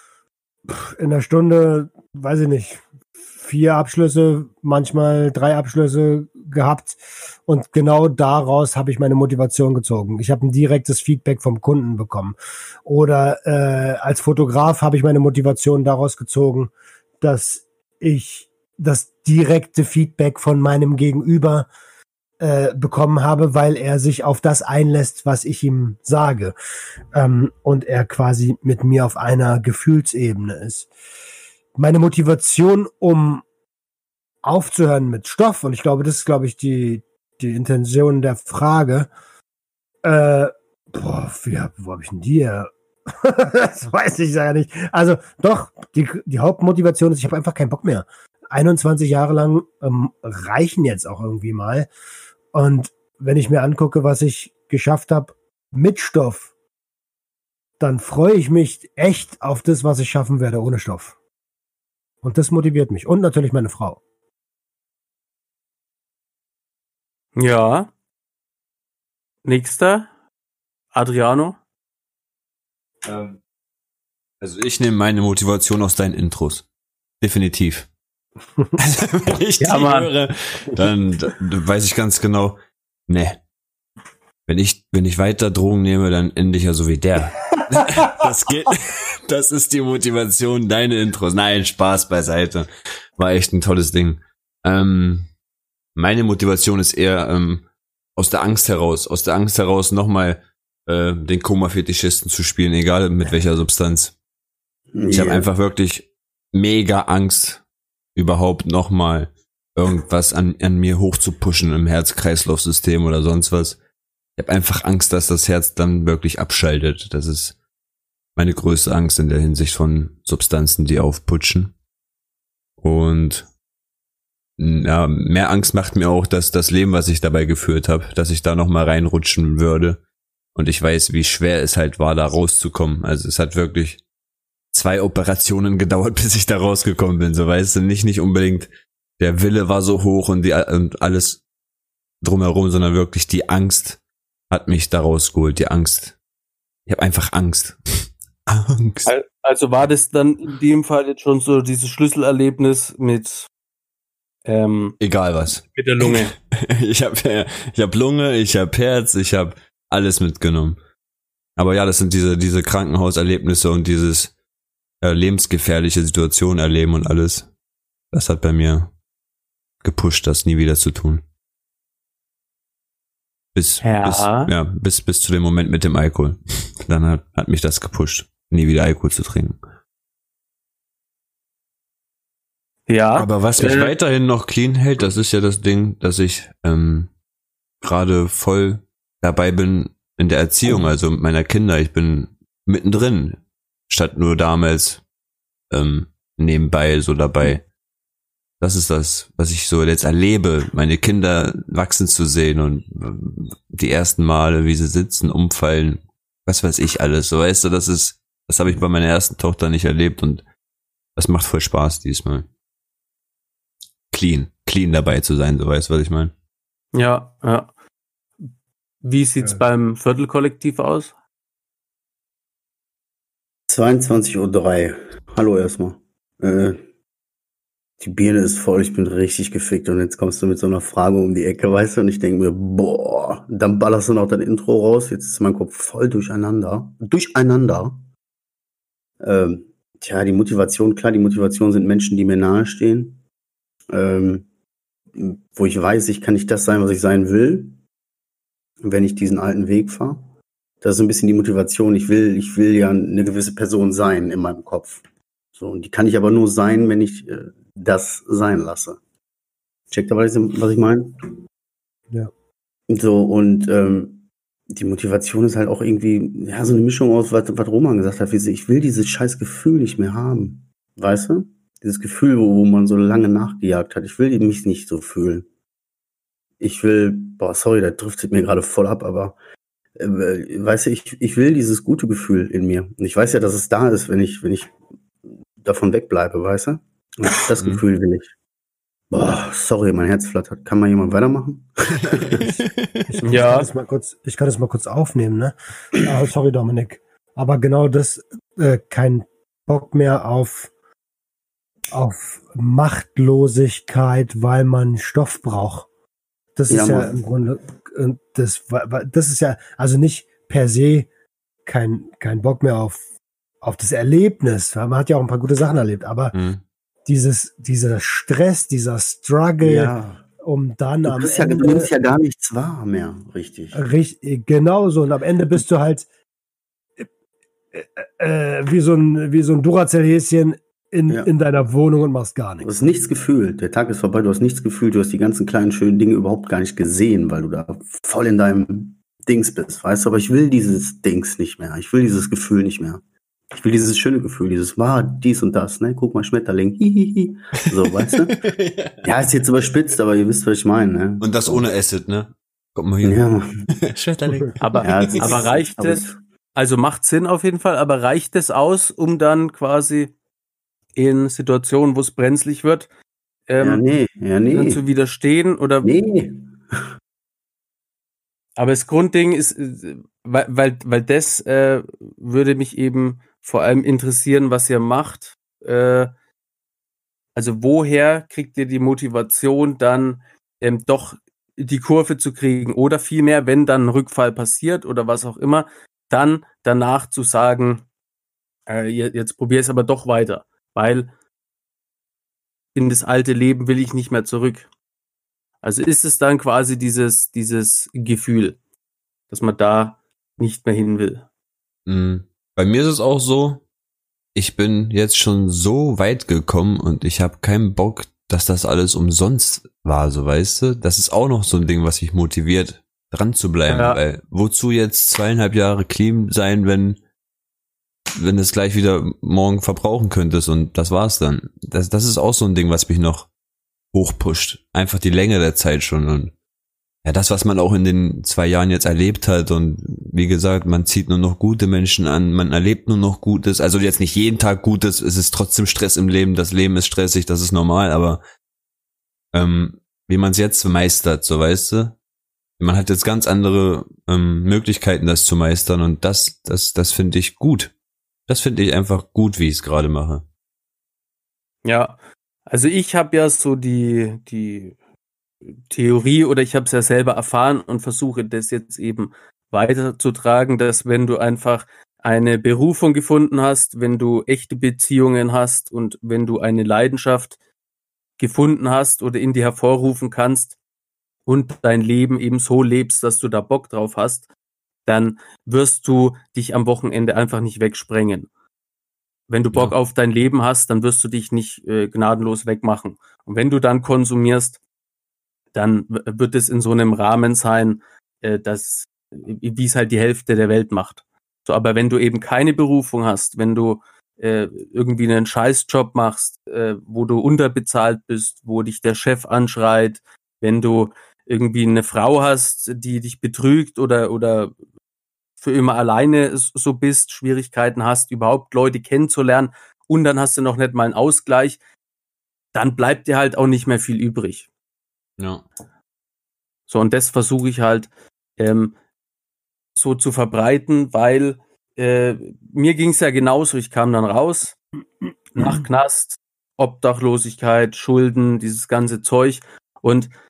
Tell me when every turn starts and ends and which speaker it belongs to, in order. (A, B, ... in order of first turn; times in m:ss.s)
0:00.6-0:21.7 A
0:22.4-0:26.6 A
0:27.1-0:30.9 A
0:31.8-0:33.4 A
0:34.4-0:39.1 A
0:40.0-0:51.9 A
0:52.5-0:56.5 A
0:57.8-1:01.2 A
1:02.2-1:04.0 A
1:07.4-1:07.9 B
1:09.4-1:10.1 B
1:10.9-1:11.6 B
1:13.0-1:13.4 C
1:14.4-1:16.6 C
1:17.2-1:17.9 C
1:18.8-1:22.6 C
1:19.6-1:20.1 B
1:23.1-1:23.4 C
1:24.5-1:35.3 C
1:36.0-1:37.6 C
1:38.2-1:44.1 C
1:44.9-1:45.5 D
1:45.1-1:47.6 C
1:48.2-1:53.8 C
1:54.4-1:57.6 C
1:58.4-2:01.7 C
2:02.8-2:03.5 C
2:04.6-2:10.0 C
2:10.6-2:14.0 C
2:14.7-2:21.4 C
2:22.2-2:24.0 C
2:24.5-2:26.2 C
2:26.9-2:29.1 C
2:29.1-2:33.5 B
2:34.5-2:35.0 B
2:35.0-2:40.8 C
2:35.7-2:36.3 B
2:41.6-2:44.3 C
2:45.0-2:47.5 C
2:48.1-2:48.9 C
2:49.8-2:51.2 C
2:53.6-2:59.6 C
2:53.8-2:54.5 B
3:02.9-3:03.9 B
3:03.2-3:07.1 C
3:07.8-3:15.0 C
3:15.7-3:17.6 C
3:18.6-3:30.4 C
3:31.2-3:32.5 C
3:34.1-3:36.3 C
3:36.9-3:37.7 B
3:39.0-3:41.1 B
3:43.7-3:46.8 D
3:48.0-3:58.0 D
3:59.2-4:03.2 D
4:03.9-4:04.5 D
4:05.2-4:07.8 D
4:08.8-4:10.3 D
4:10.8-4:15.0 D
4:15.6-4:19.0 D
4:19.9-4:21.2 D
4:22.9-4:35.5 D
4:36.6-4:39.4 D
4:40.0-4:44.8 D
4:45.6-4:48.3 D
4:49.1-4:52.5 D
4:52.4-4:53.2 C
4:53.1-5:00.7 A
4:53.2-4:53.7 B
5:01.9-5:05.9 A
5:06.6-5:11.1 A
5:06.7-5:07.1 D
5:11.6-5:13.0 A
5:13.6-5:16.4 A
5:16.3-5:16.6 C
5:17.1-5:21.9 A
5:19.6-5:20.2 D
5:21.1-5:23.8 D
5:23.7-5:26.1 A
5:27.7-5:32.7 A
5:32.6-5:43.0 D
5:43.5-5:48.5 D
5:47.8-5:49.0 C
5:49.0-5:51.6 D
5:51.2-5:55.4 C
5:53.0-5:53.6 D
5:54.6-6:00.1 B
5:54.8-5:56.2 D
6:01.0-6:02.9 B
6:03.5-6:03.8 B
6:03.6-6:04.8 D
6:04.5-6:05.9 B
6:05.8-6:06.8 D
6:08.6-6:16.1 B
6:17.4-6:27.8 B
6:28.7-6:31.1 B
6:32.8-6:34.7 B
6:35.6-6:38.6 B
6:39.3-6:41.2 B
6:41.9-6:43.6 C
6:44.4-6:57.0 C
6:53.7-6:54.0 B
6:58.2-7:03.3 C
7:03.9-7:06.3 C
7:07.0-7:18.2 C
7:19.3-7:22.0 C
7:22.6-7:27.7 C
7:28.3-7:30.2 C
7:31.6-7:32.0 B
7:32.5-7:34.8 B
7:35.7-7:47.4 B
7:48.2-7:50.6 B
7:51.2-7:54.3 B
7:54.9-7:58.3 B
7:59.3-8:04.6 B
8:05.5-8:24.5 B
8:25.4-8:31.6 B
8:32.5-8:34.5 B
8:35.2-8:35.4 C
8:36.7-8:38.8 B
8:39.8-8:44.5 B
8:45.4-8:50.1 B